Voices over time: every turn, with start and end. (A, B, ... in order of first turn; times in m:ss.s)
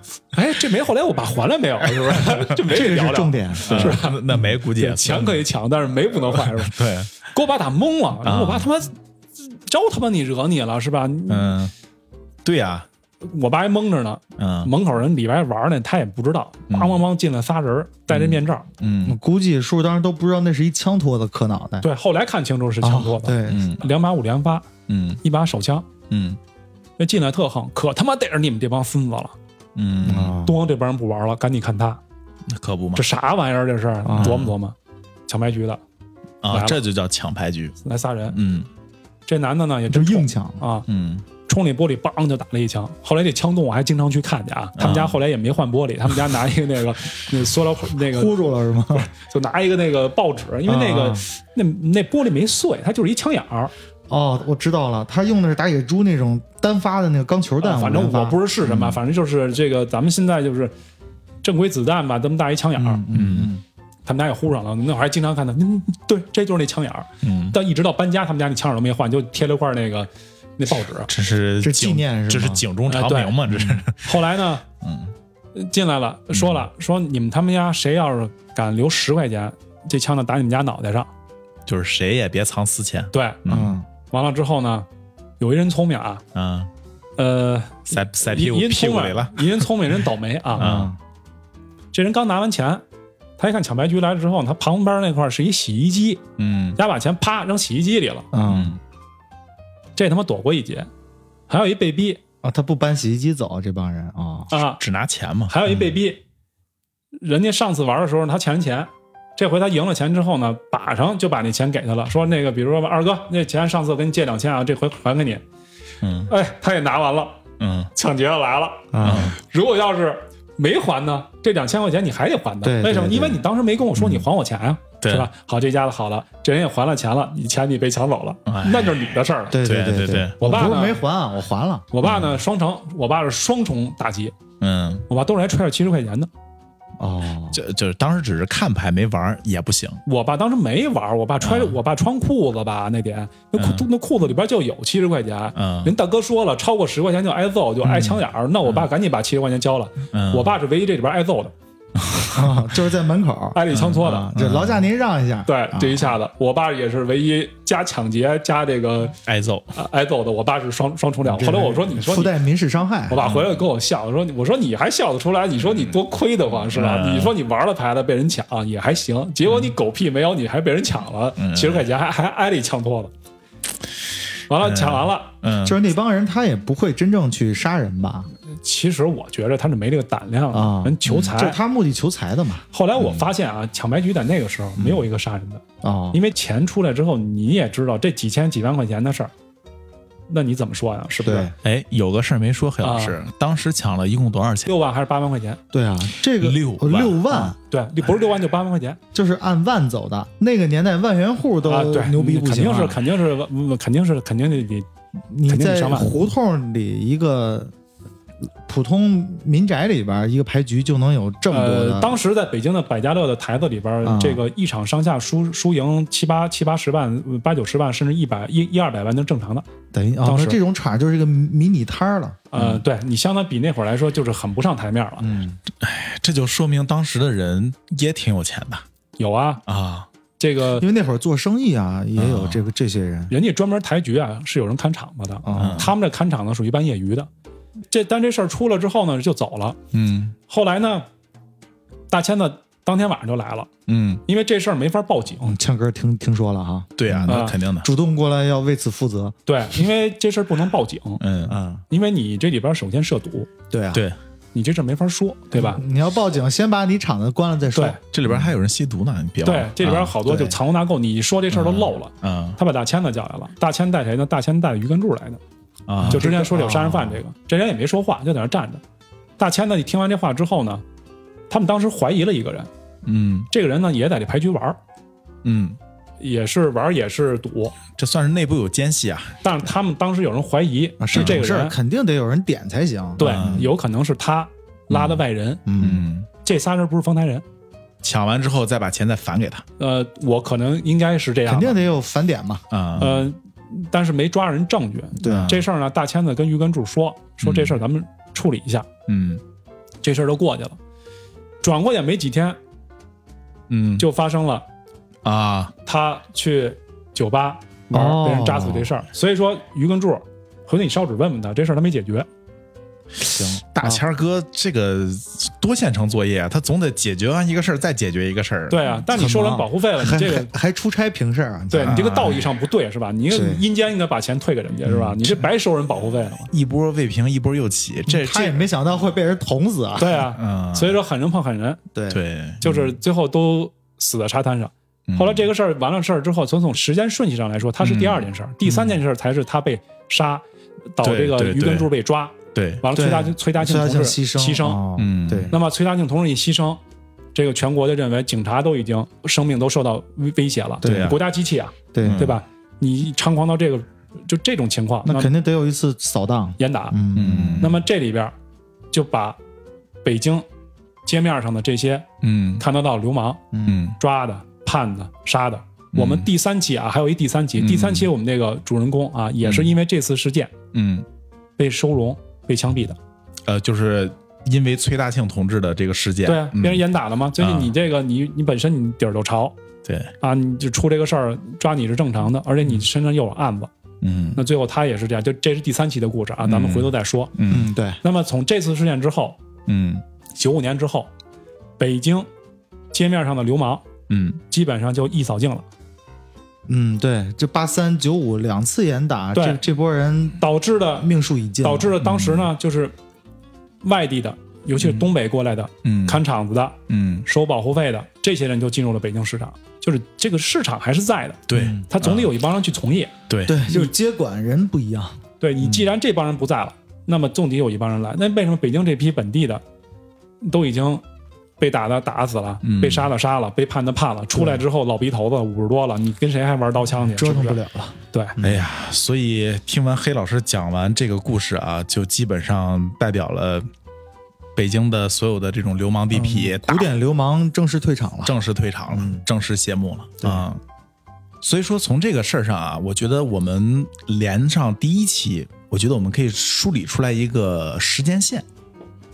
0:00.3-0:11.6 A
0:01.9-0:02.5 B
0:02.6-0:04.0 C
0:03.6-0:05.4 B
0:06.3-0:07.1 B
0:08.2-0:08.7 B
0:11.3-0:11.7 B
0:12.4-0:12.9 B
0:13.2-0:18.7 A
0:14.4-0:14.7 B
0:16.7-0:17.0 B
0:18.1-0:19.2 B
0:19.0-0:21.9 C
0:21.8-0:24.7 A
0:22.8-0:23.7 C
0:23.5-0:23.8 B
0:24.9-0:25.2 B
0:25.2-0:25.9 A
0:26.1-0:26.4 B
0:27.0-0:29.4 A
0:29.8-0:30.4 B
0:30.1-0:30.6 C
0:30.4-0:32.0 A
0:32.5-0:33.1 B
0:33.0-0:34.8 A
0:34.0-0:34.4 C
0:34.2-0:34.5 B
0:35.3-0:35.8 A
0:36.4-0:37.8 B
0:36.5-0:36.8 A
0:37.8-0:38.4 A
0:38.3-0:38.7 B
0:39.3-0:40.9 A
0:39.9-0:40.6 C
0:40.9-0:41.2 B
0:41.4-0:48.4 A
0:44.8-0:45.2 B
0:48.1-0:49.1 C
0:48.9-0:53.7 A
0:50.7-0:51.2 C
0:54.1-0:58.9 C
0:57.6-1:00.7 A
1:01.4-1:03.0 A
1:02.8-1:03.6 C
1:03.1-1:03.5 B
1:04.1-1:11.1 A
1:07.2-1:07.6 B
1:11.1-1:14.2 B
1:11.6-1:12.6 C
1:12.9-1:13.4 A
1:13.5-1:13.8 C
1:14.0-1:14.6 A
1:14.8-1:15.1 B
1:15.6-1:21.1 A
1:16.3-1:16.6 B
1:21.7-1:23.8 B
1:23.1-1:23.4 A
1:23.5-1:23.9 C
1:24.1-1:24.9 A
1:25.4-1:26.2 A
1:26.3-1:26.7 B
1:27.2-1:30.7 A
1:27.9-1:29.7 B
1:30.6-1:31.0 C
1:30.6-1:30.9 B
1:31.9-1:32.8 A
1:33.4-1:36.2 A
1:36.4-1:36.8 B
1:36.8-1:38.3 A
1:38.3-1:38.8 C
1:38.4-1:38.8 B
1:40.0-1:40.9 A
1:41.5-1:42.2 A
1:42.4-1:44.5 C
1:44.5-1:44.8 A
1:44.8-1:45.6 B
1:45.5-1:46.2 A
1:47.2-1:55.4 A
1:56.0-1:56.3 B
1:56.3-1:57.4 A
1:57.6-1:57.9 B
1:58.0-2:09.6 A
1:58.9-1:59.4 C
1:59.0-1:59.4 B
2:02.6-2:03.4 C
2:04.0-2:04.2 B
2:05.0-2:05.3 B
2:08.5-2:09.1 B
2:09.5-2:11.9 C
2:09.6-2:10.4 B
2:10.4-2:11.0 A
2:11.9-2:14.4 A
2:12.0-2:12.4 B
2:14.6-2:15.0 B
2:15.1-2:16.3 A
2:17.0-2:17.6 C
2:17.5-2:20.0 B
2:20.1-2:31.5 A
2:21.4-2:21.8 B
2:23.6-2:23.8 B
2:25.6-2:25.9 B
2:28.0-2:28.9 B
2:30.1-2:30.5 B
2:32.0-2:32.5 B
2:32.3-2:36.1 C
2:33.5-2:34.3 A
2:33.7-2:34.8 B
2:35.5-2:39.2 A
2:39.3-2:39.8 B
2:39.8-2:42.3 A
2:41.2-2:43.2 C
2:43.1-2:53.1 A
2:43.2-2:43.6 B
2:46.7-2:47.3 B
2:49.5-2:49.7 B
2:51.4-2:51.8 B
2:54.5-2:55.3 A
2:54.5-2:55.8 B
2:55.6-2:58.3 C
2:58.4-3:01.6 A
3:00.5-3:02.6 C
3:01.0-3:01.3 B
3:02.7-3:05.6 A
3:03.0-3:03.2 B
3:05.8-3:06.2 C
3:06.1-3:09.3 A
3:10.3-3:11.5 A
3:11.2-3:11.5 C
3:11.6-3:14.7 B
3:12.8-3:13.2 A
3:14.7-3:15.6 A
3:15.7-3:17.6 C
3:16.4-3:17.5 B
3:17.7-3:19.0 A
3:19.1-3:23.0 C
3:21.6-3:24.9 A
3:25.3-3:27.7 C
3:25.5-3:26.2 A
3:28.6-3:32.2 C
3:31.5-3:39.7 A
3:34.0-3:34.4 C
3:39.9-3:42.4 C
3:40.2-3:40.6 A
3:42.5-3:45.4 A
3:45.2-3:45.6 C
3:45.8-3:48.8 B
3:49.2-3:49.6 A
3:49.7-3:50.1 B
3:50.4-3:50.9 A
3:50.8-3:53.3 C
3:52.2-3:52.6 B
3:53.3-3:57.3 A
3:55.4-3:55.9 C
3:55.6-3:55.9 B
3:57.9-3:59.8 A
3:59.9-4:00.4 B
4:00.5-4:01.1 A
4:02.1-4:03.7 A
4:03.9-4:04.2 B
4:04.3-4:05.6 A
4:05.4-4:09.4 C
4:07.0-4:07.9 B
4:07.3-4:07.6 A
4:09.5-4:11.2 A
4:11.2-4:11.6 B
4:11.5-4:11.8 C
4:11.9-4:13.5 A
4:13.7-4:14.0 C
4:14.5-4:15.8 A
4:15.5-4:18.5 C
4:18.1-4:20.2 B
4:19.4-4:25.4 A
4:20.2-4:20.6 C
4:21.5-4:22.6 B
4:25.9-4:26.3 B
4:26.0-4:27.2 C
4:26.1-4:28.8 A
4:29.4-4:30.8 A
4:31.5-4:32.7 A
4:33.0-4:33.5 B
4:33.5-4:34.8 A
4:35.4-4:35.8 B
4:36.2-4:37.8 A
4:38.0-4:39.4 B
4:39.4-4:41.8 A
4:41.0-4:43.6 C
4:41.1-4:41.4 B
4:43.2-4:45.6 A
4:43.2-4:43.7 B
4:44.9-4:45.2 B
4:45.7-4:46.1 C
4:45.8-4:46.3 B
4:46.4-4:47.4 A
4:48.0-4:49.6 B
4:49.8-4:51.8 A
4:51.5-4:52.6 C
4:52.7-4:53.3 B
4:53.0-4:58.9 A
4:55.2-4:55.6 C
4:55.2-4:55.6 B
4:57.4-4:57.8 B
4:59.1-4:59.4 B
5:00.0-5:00.8 A
5:01.6-5:02.6 A
5:03.7-5:04.1 B
5:04.0-5:04.6 A
5:05.2-5:05.7 B
5:05.9-5:12.3 A
5:07.9-5:08.9 C
5:13.2-5:13.6 C
5:13.3-5:18.9 B
5:18.7-5:20.5 A
5:19.1-5:22.1 C
5:21.7-5:26.5 A
5:21.9-5:22.5 B
5:23.3-5:23.6 C
5:24.9-5:25.2 C
5:26.5-5:28.7 B
5:28.1-5:30.2 C
5:30.0-5:31.8 A
5:30.4-5:31.0 B
5:31.9-5:32.2 C
5:32.1-5:32.6 B
5:32.6-5:40.4 A
5:35.1-5:35.5 B
5:37.8-5:38.3 B
5:41.0-5:44.8 A
5:41.0-5:41.9 B
5:42.5-5:42.8 B
5:42.9-5:45.6 C
5:45.0-5:45.5 B
5:45.5-5:46.8 A
5:47.4-5:55.3 A
5:50.8-5:51.2 C
5:50.8-5:51.2 B
5:51.9-5:52.3 C
5:52.0-5:52.4 B
5:55.0-5:57.7 C
5:56.6-5:57.0 A
5:57.1-5:57.8 B
5:57.6-5:58.3 A
5:58.9-5:59.4 A
6:00.0-6:00.5 A
6:01.1-6:02.1 A
6:02.2-6:02.6 B
6:02.6-6:03.4 A
6:03.5-6:03.8 C
6:03.6-6:04.0 B
6:04.0-6:10.6 A
6:05.9-6:06.3 B
6:07.6-6:08.1 B
6:09.4-6:09.8 B
6:10.7-6:11.1 B
6:11.6-6:13.0 A
6:13.5-6:16.8 B
6:16.2-6:19.6 A
6:17.4-6:17.8 B
6:19.8-6:20.1 B
6:20.2-6:23.7 A
6:24.0-6:24.4 B
6:24.4-6:27.3 A
6:26.4-6:27.7 B
6:27.5-6:28.0 C
6:28.0-6:29.4 A
6:29.7-6:30.0 B
6:30.4-6:31.1 A
6:31.8-6:32.3 A
6:32.9-6:33.8 A
6:34.1-6:34.4 B
6:34.5-6:35.7 A
6:36.7-6:40.4 C
6:39.3-6:39.6 A
6:40.4-6:41.1 A
6:41.0-6:42.0 C
6:41.6-6:42.9 A
6:42.0-6:42.5 B
6:43.8-6:53.1 A
6:45.8-6:46.2 B
6:46.9-6:47.3 B
6:51.5-6:52.3 B
6:51.5-6:51.8 C
6:53.3-6:53.6 B
6:53.5-6:55.2 C
6:55.4-6:59.6 A
7:00.4-7:01.0 A
7:01.6-7:07.6 A
7:02.6-7:03.1 B
7:04.4-7:04.6 C
7:07.1-7:08.7 C
7:08.1-7:08.4 A
7:08.4-7:13.7 B
7:14.6-7:16.9 B
7:16.1-7:18.3 C
7:18.2-7:20.6 B
7:18.9-7:19.2 C
7:20.2-7:20.5 C
7:21.4-7:28.4 B